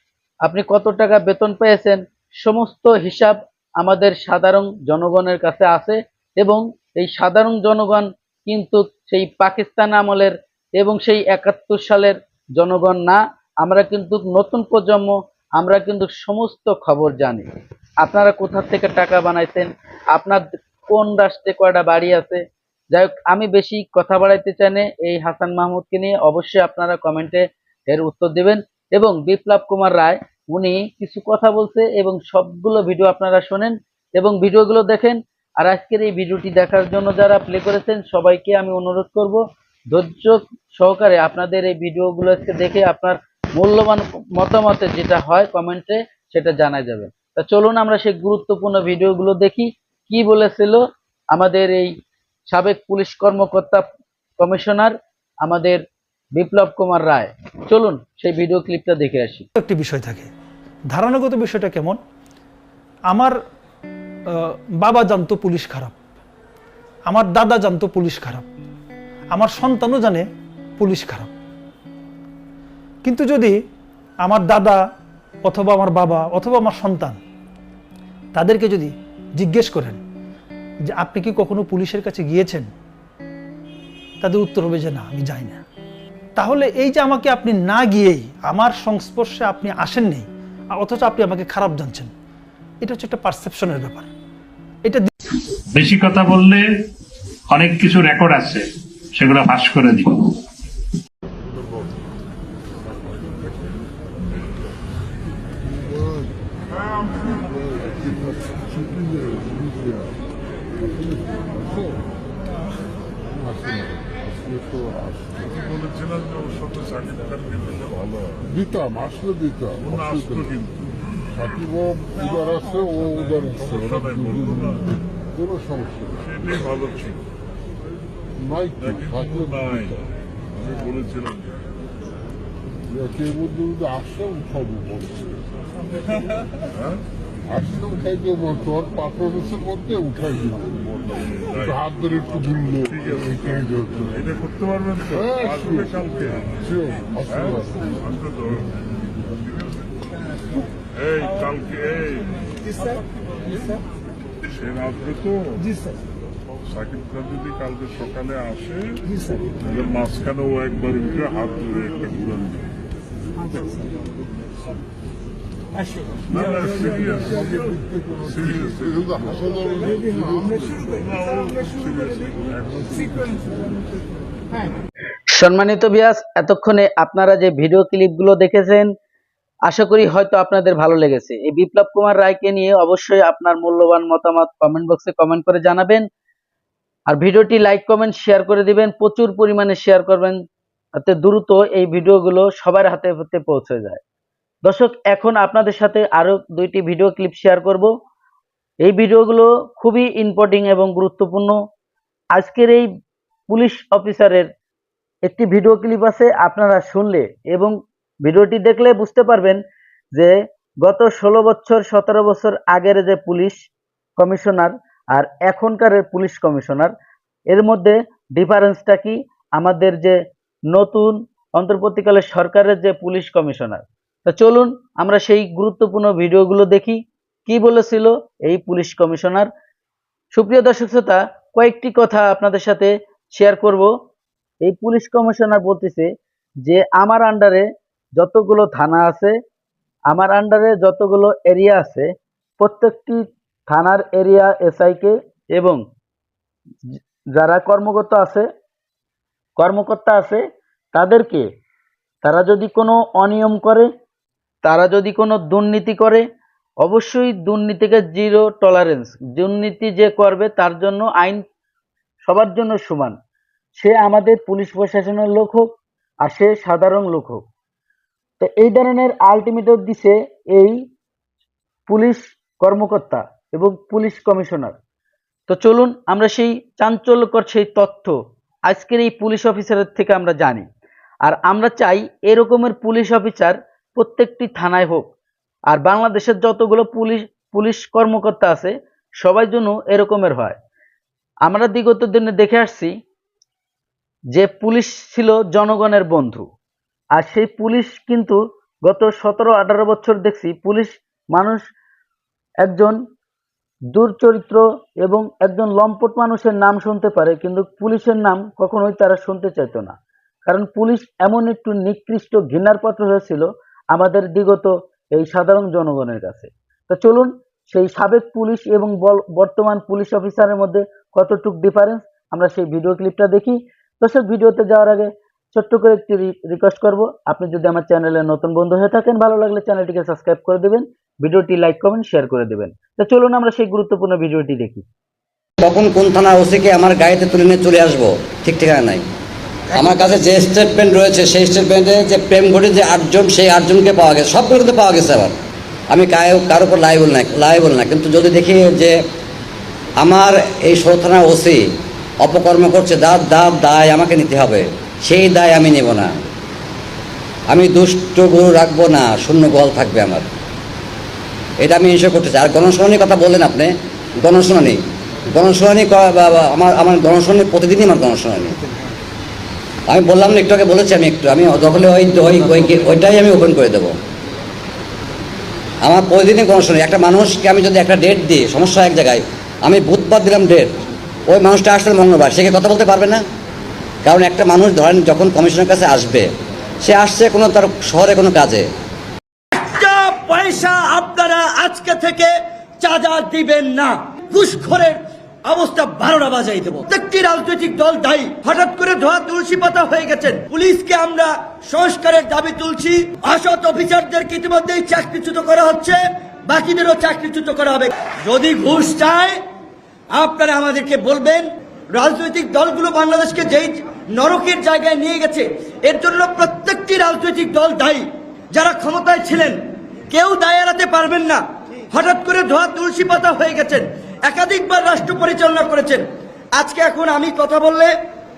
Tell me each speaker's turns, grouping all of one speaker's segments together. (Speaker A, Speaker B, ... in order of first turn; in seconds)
Speaker A: 0.4-51.9, 52.5-53.8, 54.4-55.8, 56.3-59.5, 175.3-178.9, 179.7-186.1, 187.1-190.4, 191.0-194.0, 194.6-197.9, 198.8-201.6, 202.3-202.9, 203.5-204.5, 205.3-209.6, 210.2-213.6, 214.2-216.9, 217.5-220.2, 220.7-229.5, 230.3-233.9, 234.6-236.1, 236.7-239.3, 240.1-242.1, 242.6-245.8, 247.3-248.5, 249.6-250.4, 250.9-251.4, 252.2-253.9, 254.6-256.2, 256.8-261.4, 262.2-263.2, 263.8-265.7, 266.2-267.4, 268.4-270.8, 271.9-274.8, 275.5-278.2, 278.7-280.7, 281.2-285.1, 285.7-290.6, 291.5-292.9, 294.3-296.5, 297.2-301.6, 302.6-303.0, 303.9-309.9, 310.5-334.9
Speaker B: 59.6-60.3, 60.9-62.0, 63.1-63.4, 64.4-66.0, 67.1-68.5, 69.3-71.3, 73.0-73.6, 74.2-74.8, 75.4-77.2, 78.3-80.0, 80.9-82.7, 84.2-85.6, 86.4-92.1, 92.8-94.1, 94.8-95.1
Speaker C: 95.7-96.7, 97.5-100.4
Speaker D: 113.6-115.4, 118.7-119.8, 121.5-123.7, 125.5-126.0, 128.5-129.4, 133.0-135.2, 137.6-140.8, 141.8-142.8, 146.8-147.8, 169.7-170.2
Speaker E: 115.6-118.0, 119.9-120.7, 124.0-124.6, 126.4-127.2, 128.9-129.9, 130.7-131.7, 141.4-141.7, 143.0-143.6, 144.3-146.6, 151.0-152.5, 154.6-155.7, 156.8-159.0, 159.7-162.6, 166.3-167.3, 170.9-172.6
Speaker F: 335.6-339.1, 339.7-345.4, 345.9-349.0, 350.0-351.6, 352.2-356.2, 357.5-360.3, 361.6-368.6, 369.9-373.9, 375.8-380.7, 381.3-383.2, 384.1-386.3, 386.8-388.7
Speaker G: 389.5-409.4, 410.1-426.1, 426.6-427.9